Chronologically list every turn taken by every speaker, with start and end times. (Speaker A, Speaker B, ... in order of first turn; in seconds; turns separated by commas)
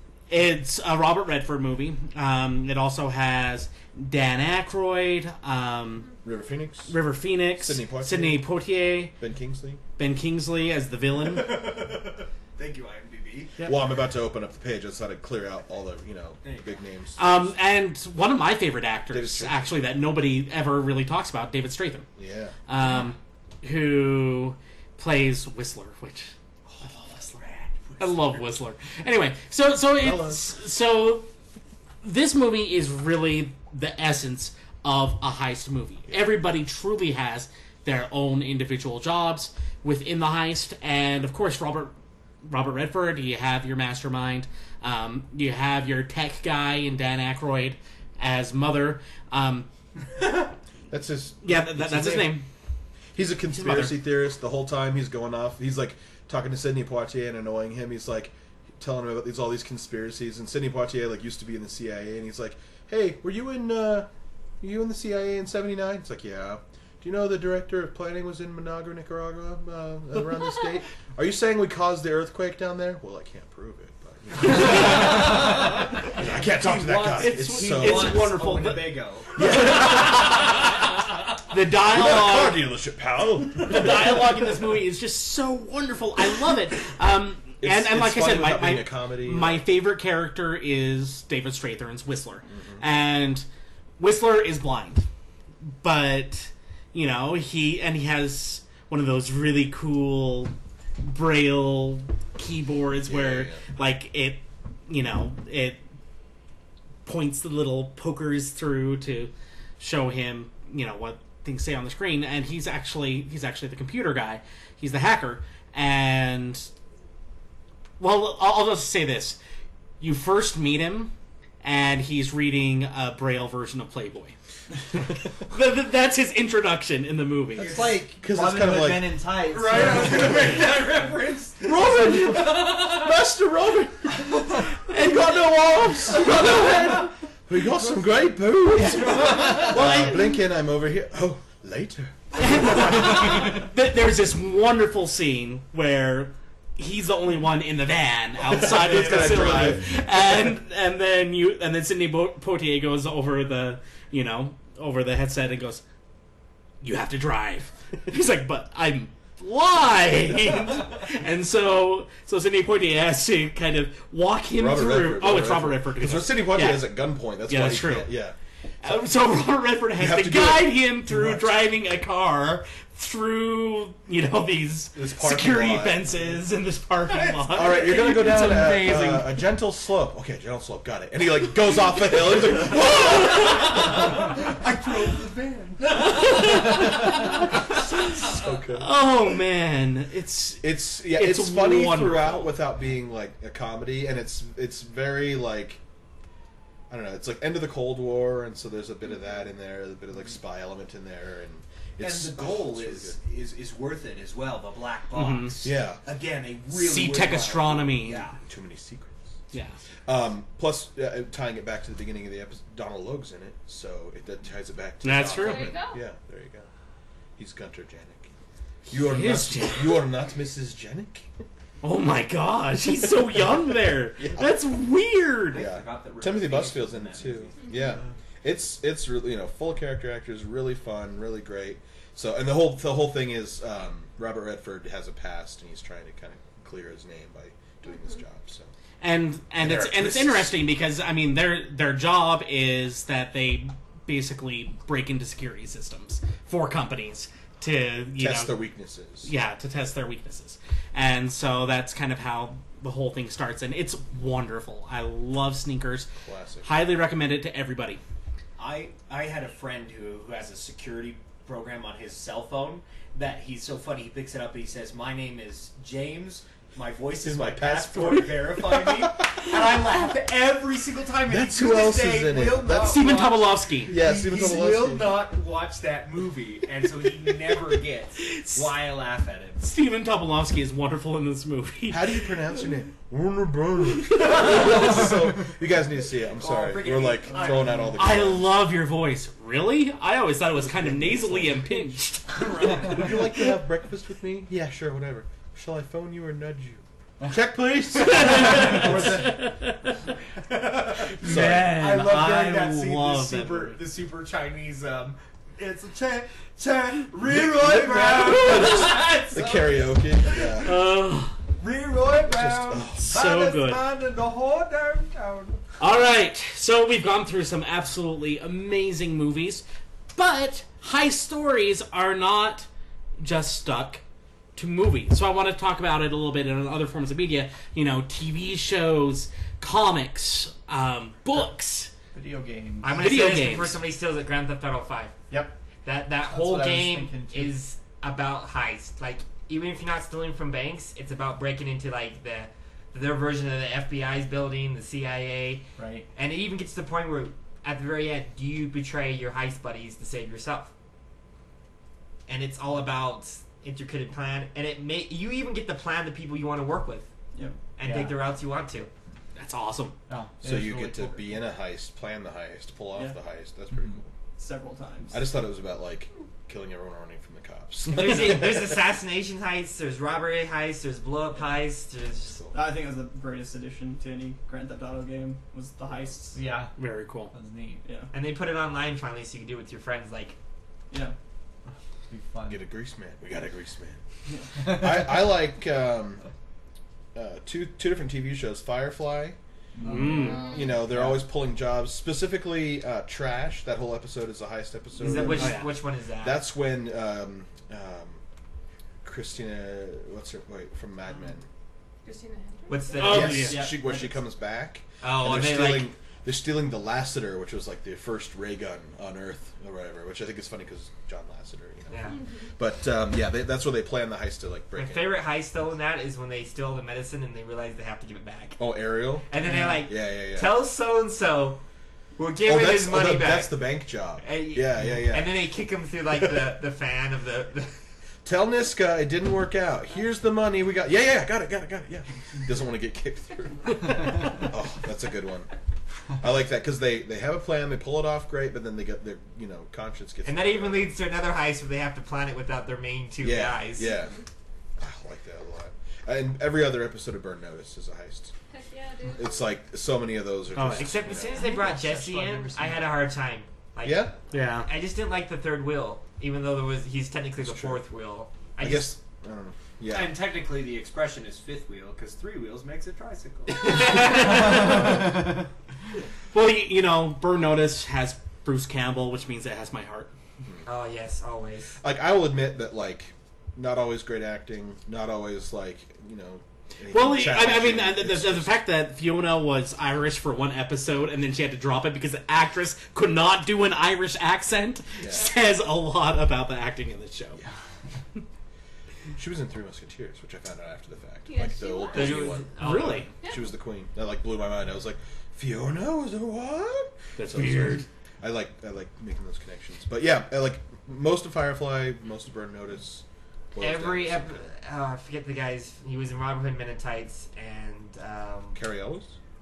Speaker A: 0.3-6.1, Speaker B: 6.2-8.6, Speaker A: 6.9-9.2, Speaker B: 9.2-9.8, Speaker A: 10.0-11.8, Speaker C: 11.2-13.6, Speaker B: 13.6-17.5, Speaker C: 16.4-16.8, Speaker A: 17.2-22.1, Speaker B: 19.1-19.8, Speaker B: 22.2-22.6, Speaker A: 22.7-26.3, Speaker C: 26.7-28.4, Speaker A: 28.0-31.3, Speaker B: 30.0-30.4, Speaker A: 32.0-49.7, Speaker B: 50.9-52.4, Speaker A: 51.4-52.5, Speaker B: 53.1-64.1, Speaker A: 53.5-54.0, Speaker B: 64.6-78.3, Speaker C: 74.7-80.0, Speaker A: 77.2-79.0, Speaker B: 79.3-80.6, Speaker A: 79.8-80.4, Speaker A: 81.5-82.6, Speaker B: 81.8-84.2, Speaker A: 83.6-93.5, Speaker B: 87.6-89.7, Speaker B: 92.5-92.8, Speaker A: 94.0-95.1, Speaker A: 95.7-105.8, Speaker B: 103.1-103.6, Speaker A: 107.0-116.7, Speaker A: 118.0-119.4, Speaker A: 120.0-124.3, Speaker A: 124.9-127.9, Speaker C: 127.6-128.0, Speaker D: 127.6-130.6, Speaker B: 128.2-129.2, Speaker C: 129.5-133.0, Speaker B: 131.6-143.3, Speaker A: 134.8-136.6, Speaker A: 138.9-140.3, Speaker D: 139.4-139.7, Speaker A: 142.4-155.8, Speaker B: 148.5-150.0, Speaker C: 148.8-149.6, Speaker A: 156.8-168.2, Speaker B: 164.6-169.1, Speaker A: 168.8-179.3, Speaker B: 169.9-171.5, Speaker B: 174.9-176.4, Speaker C: 177.1-178.7, Speaker B: 177.5-183.9, Speaker A: 183.3-183.6, Speaker C: 183.3-187.1, Speaker A: 186.0-188.0, Speaker B: 186.8-188.9, Speaker A: 188.7-192.6, Speaker B: 190.6-195.8, Speaker B: 196.9-203.2, Speaker C: 202.0-208.4, Speaker A: 205.1-205.7, Speaker B: 205.6-206.0, Speaker A: 206.7-208.3, Speaker B: 208.4-209.3, Speaker A: 209.5-209.8, Speaker B: 210.1-216.7, Speaker A: 215.0-215.8, Speaker E: 215.3-216.0, Speaker B: 217.4-218.3, Speaker B: 218.9-221.3, Speaker A: 218.9-220.1, Speaker A: 221.8-225.7, Speaker B: 224.2-224.6, Speaker C: 225.5-228.1, Speaker B: 225.5-238.7, Speaker A: 239.0-248.6, Speaker B: 239.6-240.6, Speaker B: 248.2-249.3, Speaker A: 249.2-256.1, Speaker B: 256.2-256.7, Speaker A: 256.6-258.0, Speaker C: 258.6-279.6, Speaker B: 267.2-269.2, Speaker B: 271.3-273.2, Speaker A: 272.8-274.0, Speaker B: 273.9-275.2, Speaker A: 278.2-278.7, Speaker A: 279.6-282.3, Speaker B: 281.9-288.5, Speaker C: 284.2-285.1, Speaker C: 286.3-288.0, Speaker A: 288.0-293.1, Speaker B: 290.7-291.7, Speaker C: 292.3-293.0, Speaker B: 292.8-299.4, Speaker A: 298.0-300.1, Speaker C: 298.6-299.2, Speaker C: 300.5-310.7, Speaker A: 301.0-303.8, Speaker B: 301.2-301.8, Speaker B: 307.3-310.8, Speaker A: 308.3-309.0, Speaker A: 310.6-311.4, Speaker C: 311.6-315.6, Speaker B: 312.3-313.1, Speaker A: 312.9-313.8, Speaker A: 315.8-319.6, Speaker A: 320.1-322.7, Speaker A: 323.2-324.0, Speaker A: 324.6-331.9, Speaker D: 332.1-333.2, Speaker F: 332.8-335.2, Speaker A: 333.0-333.8, Speaker D: 335.3-335.6, Speaker F: 335.8-350.7, Speaker D: 336.2-337.6, Speaker D: 345.8-346.1, Speaker F: 352.3-357.1, Speaker G: 357.4-357.6, Speaker F: 357.8-358.9, Speaker D: 357.8-358.2, Speaker A: 359.4-360.0, Speaker D: 360.1-361.4, Speaker B: 360.4-364.1, Speaker G: 364.4-365.3, Speaker B: 365.1-368.9, Speaker F: 367.9-372.4, Speaker G: 372.5-376.4, Speaker D: 376.3-376.7, Speaker A: 376.8-377.3, Speaker D: 377.3-377.8, Speaker G: 377.8-378.1, Speaker F: 378.1-380.4, Speaker D: 382.1-382.6, Speaker B: 382.5-384.0, Speaker G: 384.3-384.6, Speaker D: 384.6-385.2, Speaker B: 384.6-386.2, Speaker B: 387.1-389.4, Speaker D: 389.8-391.3, Speaker A: 389.9-390.5, Speaker E: 390.2-390.7, Speaker B: 390.4-395.7, Speaker F: 395.0-396.4, Speaker A: 395.1-395.7, Speaker B: 396.2-398.2, Speaker B: 399.0-401.5, Speaker E: 402.1-403.2, Speaker F: 402.7-403.5, Speaker A: 403.0-403.6, Speaker B: 403.0-415.2, Speaker G: 403.2-404.2, Speaker F: 405.0-405.9, Speaker F: 411.9-412.2, Speaker E: 412.1-412.5, Speaker F: 414.8-418.6, Speaker B: 418.6-419.3, Speaker F: 419.3-421.6, Speaker D: 419.4-419.8, Speaker B: 419.8-420.6, Speaker F: 422.2-423.6, Speaker B: 422.4-425.4, Speaker F: 424.2-427.8, Speaker B: 428.2-435.5, Speaker B: 436.2-440.9, Speaker F: 440.2-443.9, Speaker B: 443.2-444.1, Speaker B: 444.8-448.3, Speaker E: 448.5-449.5, Speaker B: 449.1-451.4, Speaker A: 450.6-450.9, Speaker F: 450.8-458.9, Speaker D: 451.1-452.9, Speaker B: 453.8-454.1, Speaker A: 454.3-454.7, Speaker B: 457.4-457.8, Speaker B: 458.6-460.2, Speaker C: 459.9-464.2, Speaker A: 463.6-465.1, Speaker A: 466.3-470.1, Speaker F: 470.7-471.8, Speaker B: 471.8-478.6, Speaker A: 476.9-487.4, Speaker B: 489.1-504.5, Speaker E: 491.3-492.3, Speaker F: 491.9-493.1, Speaker A: 492.6-493.1, Speaker A: 497.2-497.9, Speaker F: 503.6-508.6, Speaker B: 508.5-509.1